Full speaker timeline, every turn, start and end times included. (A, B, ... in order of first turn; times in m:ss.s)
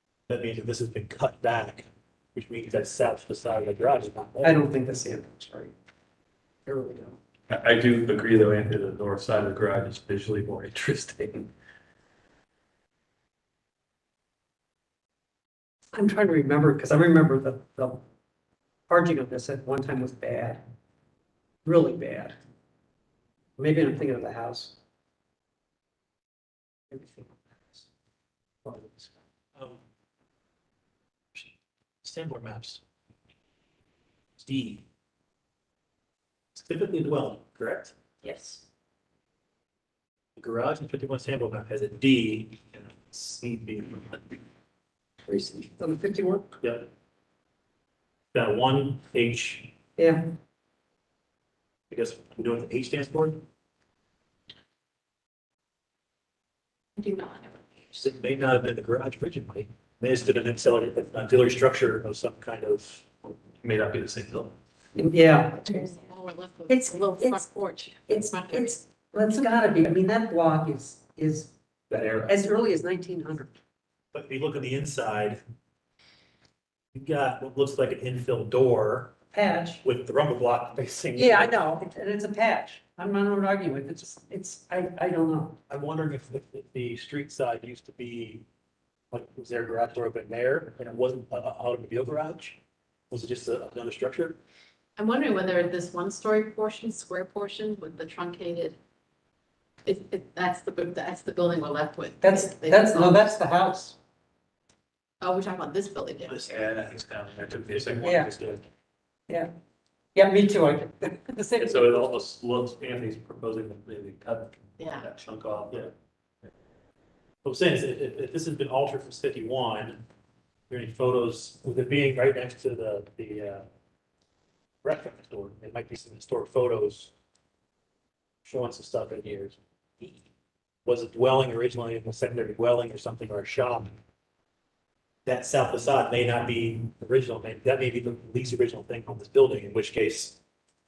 0:00.3-0:04.6 A
0:04.4-0:05.7 B
0:06.6-0:07.2 B
0:07.5-0:11.5 C
0:15.9-0:18.0 B
0:18.9-0:20.6 B
0:21.6-0:22.4 B
0:23.6-0:24.7 B
0:26.9-0:27.8 B
0:28.6-0:29.1 B
0:29.5-0:29.8 A
0:31.3-0:32.8 A
0:34.4-0:34.8 A
0:36.5-0:37.9 A
0:38.2-0:38.6 B
0:40.4-0:44.4 A
0:45.2-0:46.6 B
0:46.6-0:46.9 A
0:48.3-0:49.7 A
0:50.0-0:50.3 B
0:51.9-0:53.4 A
0:57.0-0:57.6 D
0:57.9-1:03.1 A
1:03.6-1:04.5 C
1:04.9-1:05.9 B
1:05.7-1:08.8 D
1:06.7-1:07.5 B
1:08.1-1:11.5 B
1:11.9-1:12.3 C
1:12.3-1:13.5 B
1:14.1-1:15.4 A
1:16.9-1:19.2 A
1:19.3-1:19.8 B
1:19.8-1:21.6 A
1:21.1-1:25.6 B
1:25.7-1:28.4 A
1:29.1-1:32.6 A
1:33.1-1:34.4 A
1:35.0-1:38.8 D
1:39.8-1:43.2 D
1:42.2-1:44.0 B
1:45.2-1:46.6 D
1:46.3-1:46.9 A
1:46.5-1:48.6 C
1:48.0-1:48.3 B
1:50.1-1:52.1 B
1:51.6-1:55.9 C
1:54.8-1:55.1 D
1:57.4-2:00.0 A
2:00.7-2:03.6 A
2:04.8-2:07.1 A
2:08.4-2:10.2 A
2:10.8-2:13.9 A
2:15.2-2:20.4 A